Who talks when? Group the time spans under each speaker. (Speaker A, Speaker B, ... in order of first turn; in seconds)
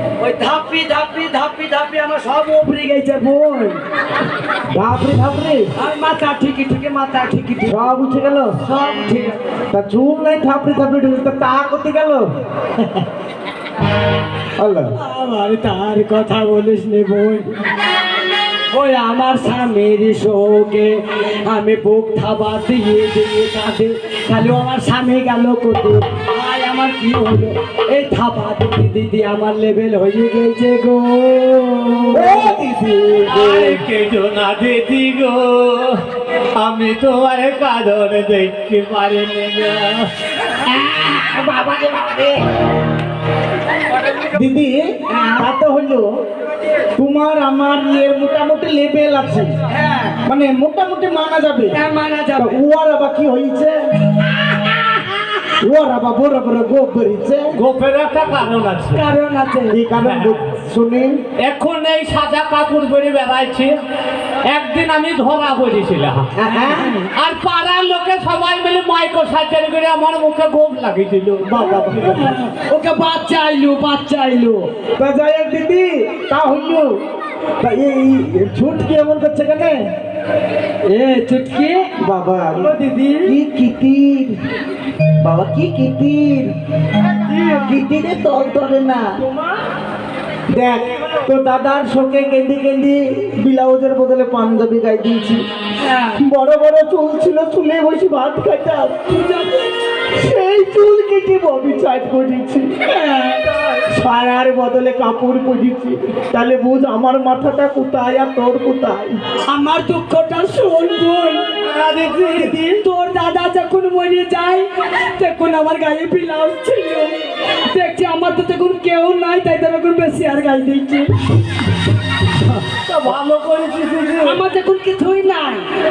Speaker A: 0.2-3.8, 5.8-7.9, 8.6-9.4, 14.9-17.6, 18.7-32.5, 45.1-45.5, 49.7-50.2, 51.7-52.6, 58.9-59.8, 66.5-67.1, 72.0-74.7, 80.9-81.9, 82.6-83.3, 95.8-96.2, 99.1-99.7, 102.9-103.4, 109.5-111.4, 112.4-117.1, 117.7-121.1, 124.2-125.7
Speaker B: 4.7-5.6, 7.6-8.5, 9.7-12.3, 14.6-14.9, 32.1-33.8, 44.3-44.8, 45.4-46.1, 47.0-49.5, 50.3-51.8, 52.4-53.7, 55.6-57.5, 59.7-61.1, 66.4-66.9, 71.4-72.3, 75.0-76.9, 77.6-79.8, 82.0-84.4, 85.2-86.5, 87.4-89.1, 90.5-95.4, 96.2-99.1, 100.1-102.9, 103.5-109.2
Speaker C: 33.2-36.0, 36.6-40.1, 40.6-42.4, 57.5-59.0, 60.0-60.4, 61.4-63.7, 64.5-66.3, 67.2-72.2, 111.6-112.6, 122.6-124.4